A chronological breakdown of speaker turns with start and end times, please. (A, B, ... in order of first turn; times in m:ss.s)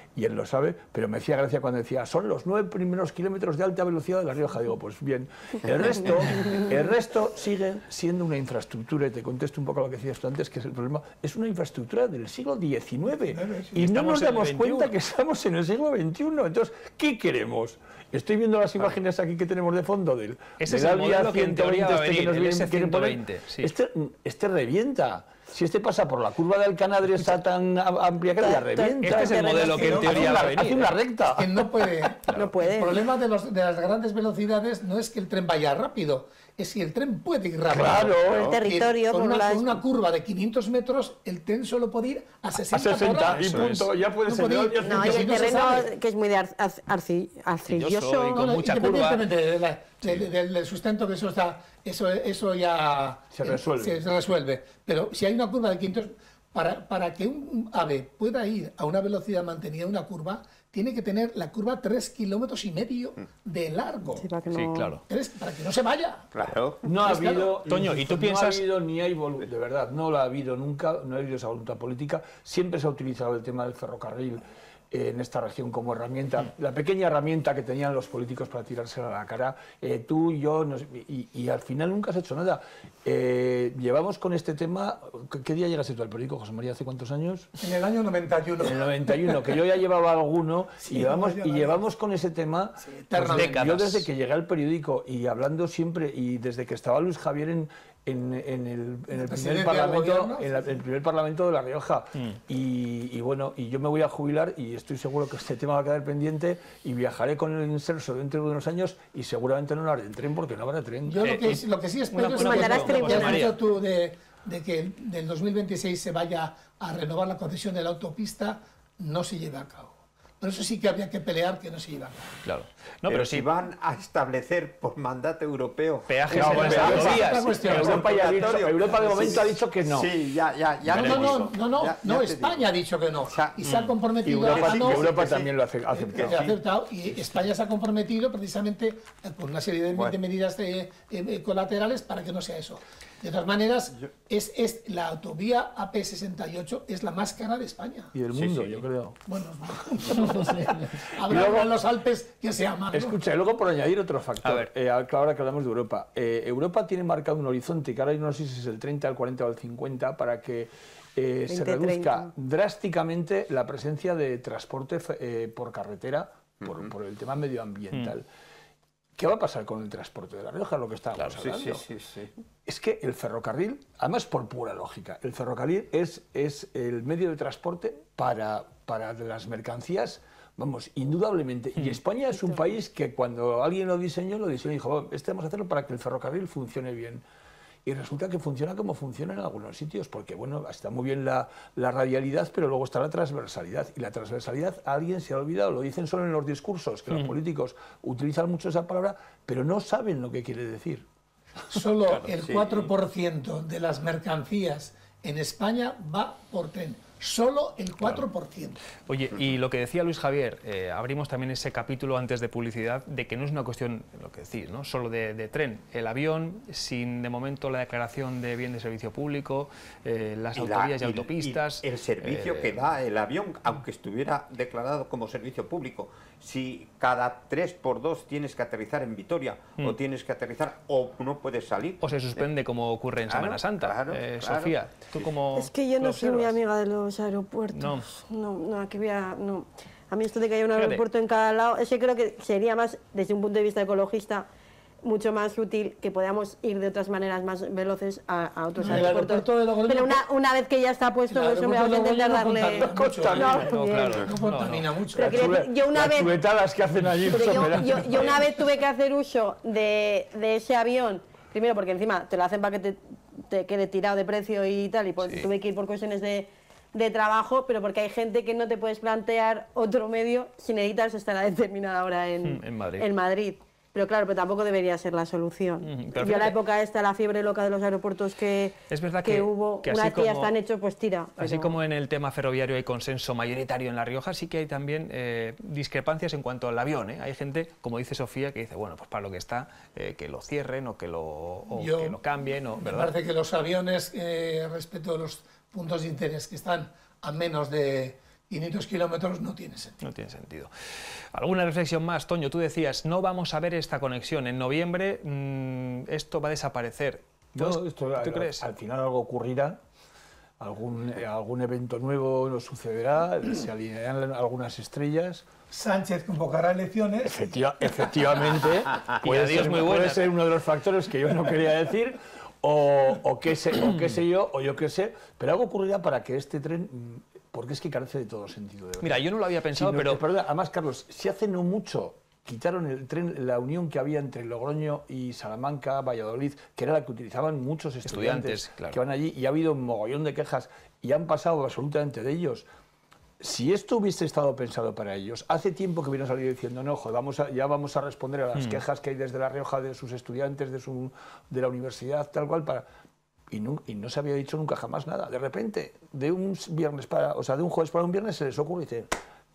0:00.1-0:32.1 A
0:13.4-0:13.7 B
0:13.8-0:14.9 C
0:20.6-0:23.7 C
0:28.4-0:30.0 D
0:29.0-0:30.9 C
0:29.6-0:30.4 B
0:31.3-0:43.6 B
0:32.3-0:33.0 D
0:37.7-0:38.6 A
0:38.3-0:39.8 D
0:42.7-0:45.9 A
0:43.2-0:43.9 C
0:44.2-0:45.9 B
0:44.8-0:48.4 D
0:47.7-0:49.3 C
0:48.3-1:04.3 B
0:53.3-0:54.0 A
1:04.2-1:05.0 D
1:04.5-1:05.0 C
1:05.1-1:06.3 B
1:06.3-1:06.9 E
1:06.8-1:27.6 A
1:06.9-1:07.6 B
1:07.6-1:08.6 C
1:27.6-1:29.5 B
1:28.6-1:51.5 A
1:30.8-1:31.8 B
1:32.8-1:33.6 B
1:33.3-1:34.1 C
1:39.1-1:40.5 B
1:51.1-2:02.4 B
1:51.2-1:53.6 C
1:52.3-1:53.5 D
2:02.4-2:03.5 C
2:03.1-2:12.7 E
2:06.1-2:08.0 C
2:06.3-2:10.1 A
2:06.4-2:08.2 B
2:10.9-2:15.2 B
2:13.3-2:13.7 E
2:13.6-2:13.9 C
2:14.2-2:16.4 A
2:14.3-2:15.5 E
2:15.9-2:28.1 B
2:16.1-2:16.6 E
2:19.9-2:20.2 E
2:28.1-2:29.2 A
2:29.2-2:33.1 B
2:30.1-2:31.7 A
2:32.9-2:48.2 A
2:34.4-2:34.7 C
2:41.5-2:42.3 D
2:46.6-2:46.9 E
2:49.2-2:51.8 A
2:51.3-2:52.3 E
2:52.6-3:07.2 A
3:07.8-3:21.0 A
3:21.7-3:28.8 B
3:22.3-3:22.9 E
3:29.0-3:42.8 C
3:40.5-3:52.4 E
3:52.0-3:56.5 C
3:53.3-3:55.3 E
3:55.5-4:04.5 D
3:57.7-3:58.1 C
4:00.8-4:01.0 C
4:05.0-4:14.2 D
4:08.8-4:10.2 B
4:11.3-4:15.4 B
4:12.6-4:13.7 A
4:13.4-4:15.0 C
4:15.1-4:16.3 D
4:15.1-4:18.4 A
4:17.3-4:41.8 D
4:32.4-4:33.1 C
4:35.8-4:36.6 C
4:38.9-4:40.5 C
4:41.4-4:53.1 C
4:51.7-4:52.2 B
4:52.8-5:00.0 B
5:00.0-5:00.7 C
5:01.3-5:08.6 C
5:07.5-5:09.8 A
5:10.6-5:15.5 A
5:15.7-5:17.5 B
5:17.2-5:42.6 A
5:19.2-5:20.3 C
5:29.0-5:30.2 C
5:38.0-5:39.0 C
5:43.4-5:52.8 A
5:53.5-5:59.1 A